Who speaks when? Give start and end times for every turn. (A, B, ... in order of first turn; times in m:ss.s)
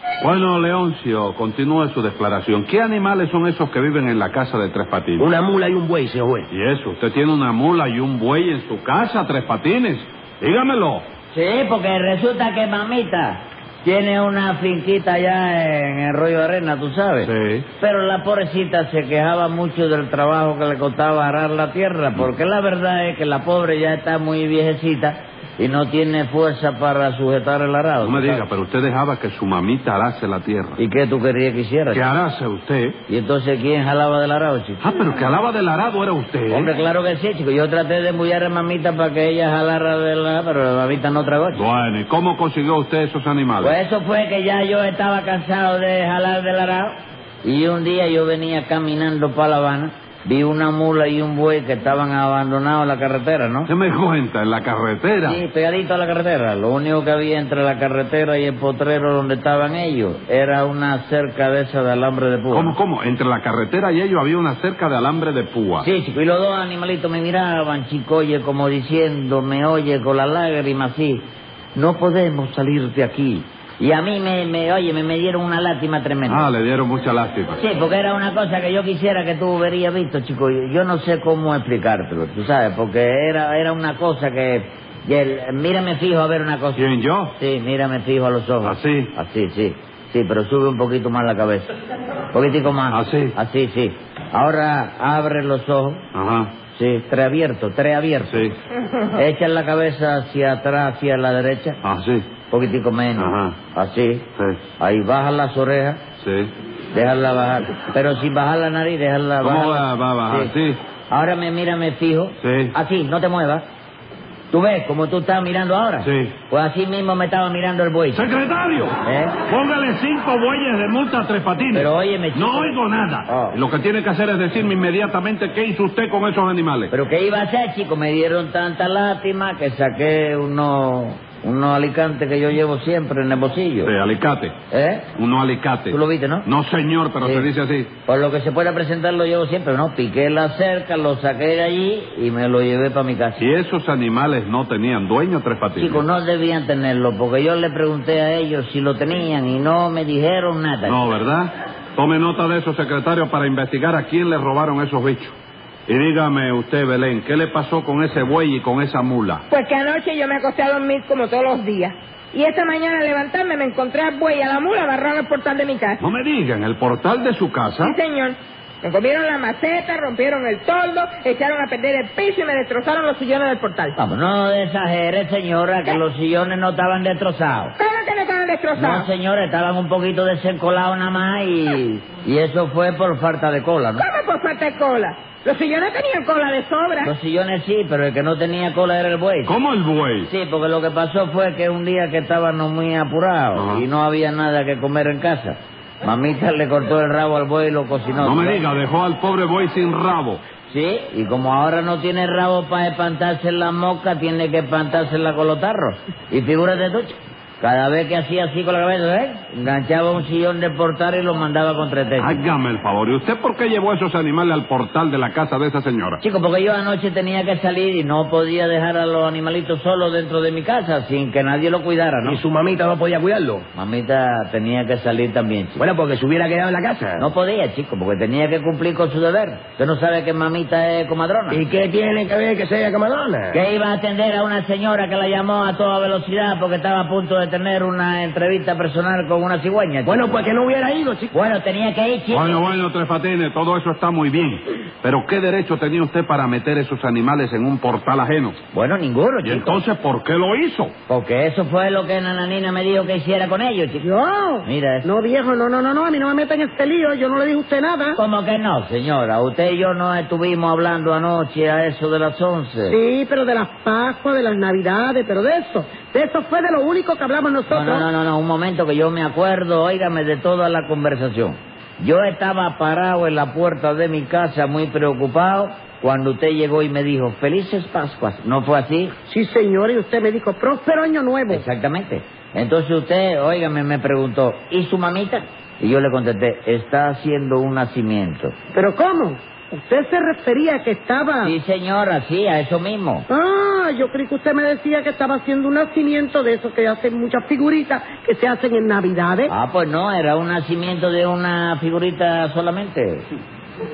0:00.2-0:05.3 A
0:05.2-0:06.5 B
0:06.5-0:11.0 A
0:11.3-0:28.4 C
0:17.2-0:17.6 A
0:28.0-0:30.8 A
0:30.8-0:32.0 C
0:31.9-0:33.0 A
0:33.1-0:34.8 C
0:34.8-0:36.7 A
0:36.5-0:41.6 C
0:41.5-0:43.7 A
0:43.6-0:53.7 C
0:53.7-0:55.4 A
0:55.2-1:02.8 C
1:02.5-1:05.9 A
1:05.8-1:16.5 C
1:16.3-1:17.6 A
1:17.6-1:26.8 C
1:26.7-1:27.3 A
1:27.4-1:31.7 C
1:28.6-1:29.1 A
1:32.3-1:36.0 C
1:32.9-1:33.3 A
1:36.1-1:36.5 A
1:36.7-1:38.5 C
1:39.1-1:41.8 C
1:41.8-1:42.3 A
1:42.5-1:44.3 C
1:43.2-1:43.6 A
1:44.4-1:44.6 A
1:44.8-1:46.0 C
1:46.2-1:46.5 A
1:46.9-1:50.5 C
1:49.4-1:50.8 A
1:51.1-1:53.6 C
1:52.4-1:52.7 A
1:54.5-1:58.2 C
1:56.0-1:56.4 A
1:58.1-2:06.9 A
1:59.0-1:59.4 C
2:01.7-2:03.6 C
2:06.9-2:13.9 C
2:13.8-2:14.6 A
2:14.7-2:15.1 C
2:15.2-2:17.9 A
2:15.9-2:16.5 C
2:17.2-2:17.5 C
2:18.1-2:23.4 C
2:23.4-2:26.0 A
2:25.8-2:31.1 C
2:30.8-2:35.4 A
2:35.9-2:39.4 A
2:39.5-2:46.0 D
2:46.0-2:48.0 A
2:47.8-2:54.0 D
2:54.0-2:57.7 C
2:57.8-2:59.1 D
2:58.8-3:04.0 C
3:04.0-3:07.1 D
3:07.0-3:09.5 C
3:09.4-3:10.3 A
3:10.2-3:18.6 C
3:13.5-3:13.8 A
3:18.2-3:20.4 A
3:20.7-3:32.4 C
3:32.2-3:36.2 A
3:36.2-3:42.4 C
3:42.2-3:43.6 B
3:43.7-3:45.8 C
3:45.8-3:47.2 B
3:47.2-3:51.6 C
3:51.5-3:53.6 B
3:53.5-4:00.4 C
4:00.0-4:01.3 B
4:01.3-4:02.7 C
4:02.3-4:08.6 A
4:08.7-4:09.8 C
4:09.4-4:10.9 A
4:11.1-4:14.0 C
4:14.0-4:18.2 E
4:14.6-4:15.0 C
4:18.2-4:23.0 C
4:22.8-4:28.0 E
4:27.7-4:39.1 C
4:39.3-4:41.6 E
4:41.5-4:48.6 C
4:48.7-4:51.5 E
4:51.4-4:53.3 C
4:53.3-4:59.5 E
4:59.5-5:03.2 C